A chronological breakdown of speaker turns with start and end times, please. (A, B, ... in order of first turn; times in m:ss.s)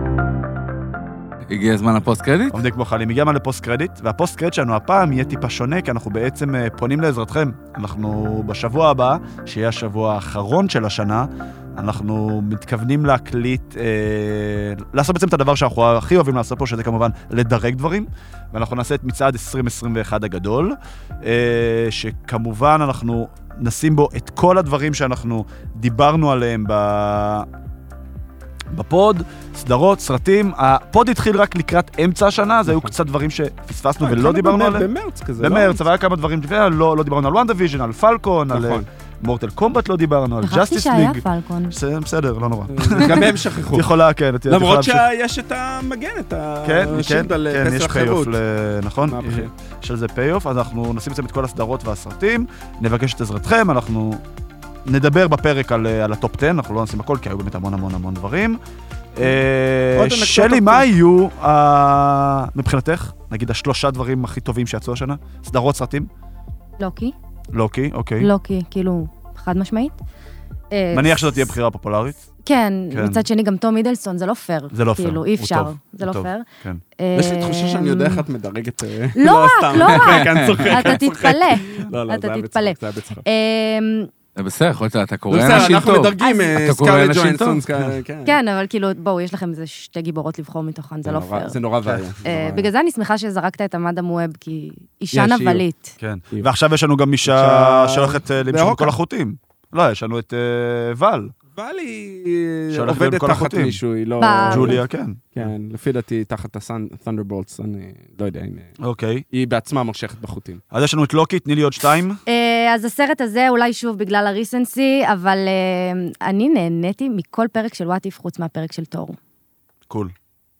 0:01.5-0:02.6 A
0:02.5-0:27.5 B
0:28.7-0:45.1 B
0:34.0-0:35.8 C
0:38.5-0:38.9 C
0:40.4-0:41.8 D
0:42.7-0:43.9 C
0:44.5-0:48.4 C
0:46.6-0:54.2 B
0:49.1-0:49.5 C
0:54.9-0:58.6 B
0:59.1-1:06.1 B
1:00.0-1:00.9 C
1:06.8-1:07.2 D
1:07.5-1:08.3 B
1:08.2-1:10.0 D
1:10.7-1:11.6 D
1:10.9-1:12.2 B
1:12.4-1:16.5 D
1:12.9-1:13.3 B
1:14.7-1:16.8 B
1:17.0-1:18.2 D
1:17.1-1:23.2 C
1:19.2-1:24.1 D
1:20.2-1:20.7 A
1:24.4-1:28.0 A
1:25.3-1:28.4 C
1:25.5-1:26.6 D
1:28.3-1:31.6 D
1:31.0-1:32.7 C
1:32.2-1:36.0 D
1:35.1-1:35.6 C
1:36.0-1:41.3 B
1:37.2-1:39.0 C
1:41.6-1:44.8 C
1:42.7-1:43.8 B
1:44.2-1:44.8 D
1:44.5-1:45.5 B
1:45.4-1:48.7 C
1:48.8-1:49.2 B
1:49.3-1:50.6 C
1:50.7-1:52.2 B
1:52.3-1:59.2 D
1:59.9-2:00.1 B